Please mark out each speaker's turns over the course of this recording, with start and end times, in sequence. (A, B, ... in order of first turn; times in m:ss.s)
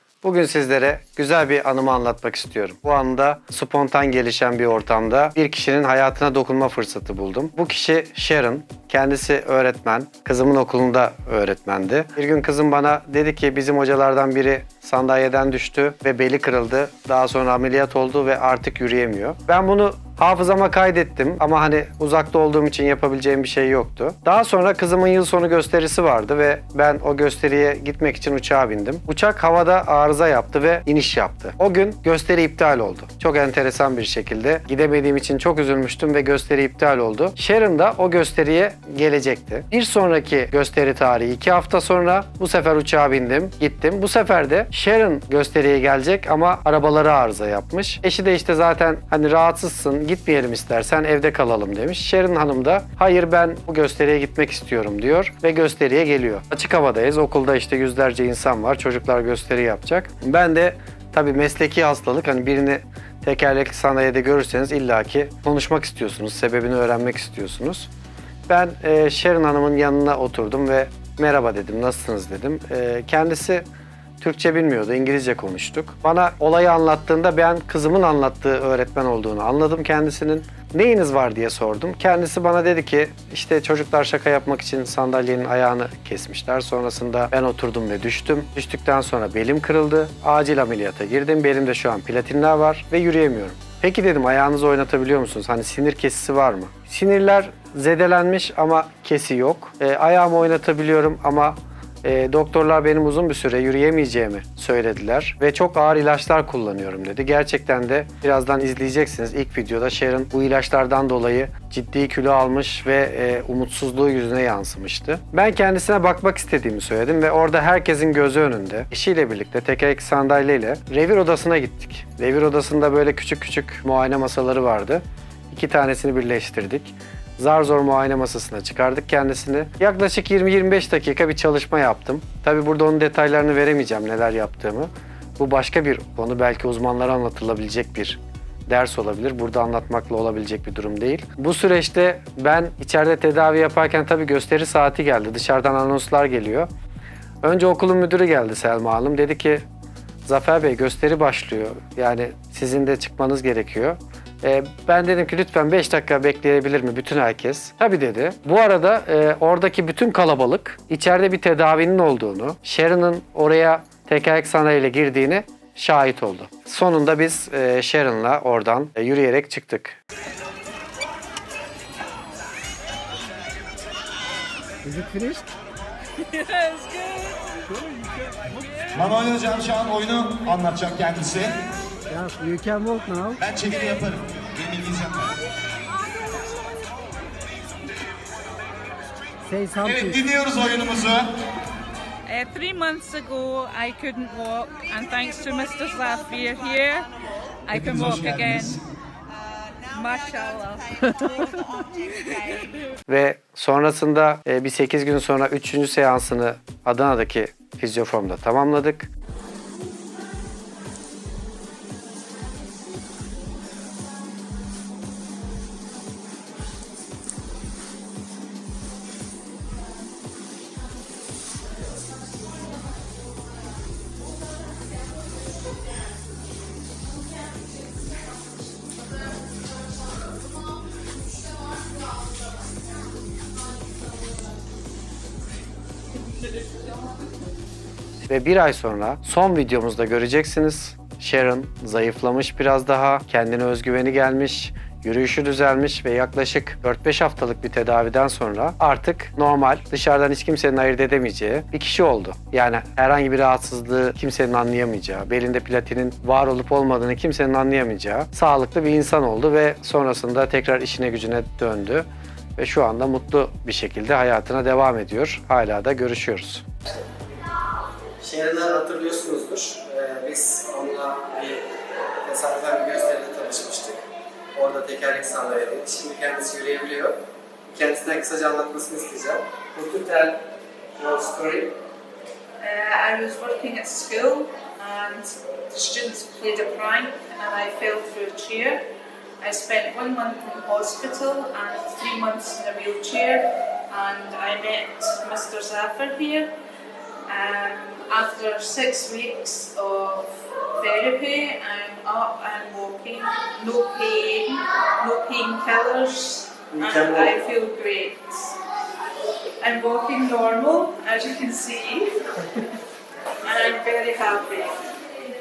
0:00.2-1:07.9 A
1:08.5-1:13.6 A
1:14.2-2:26.7 A
2:27.4-2:29.6 A
2:30.2-2:50.0 A
2:54.9-2:55.5 B
2:56.2-2:57.7 C
2:58.8-2:59.7 C
2:59.0-3:01.6 D
3:02.2-3:03.8 B
3:03.4-3:05.2 D
3:09.6-3:10.4 B
3:09.8-3:11.3 D
3:12.3-3:17.2 C
3:17.7-3:18.8 C
3:19.9-3:22.8 C
3:23.1-3:29.1 A
3:58.3-4:26.7 A
4:28.2-4:31.7 A
4:32.2-4:34.0 A
4:34.6-4:37.2 A
4:37.7-4:40.4 A
4:41.0-4:41.7 A
4:42.6-4:48.8 C
4:49.4-4:56.5 C
4:57.3-5:08.6 C
5:06.9-5:07.3 A
5:09.6-5:12.6 C
5:13.4-5:15.1 C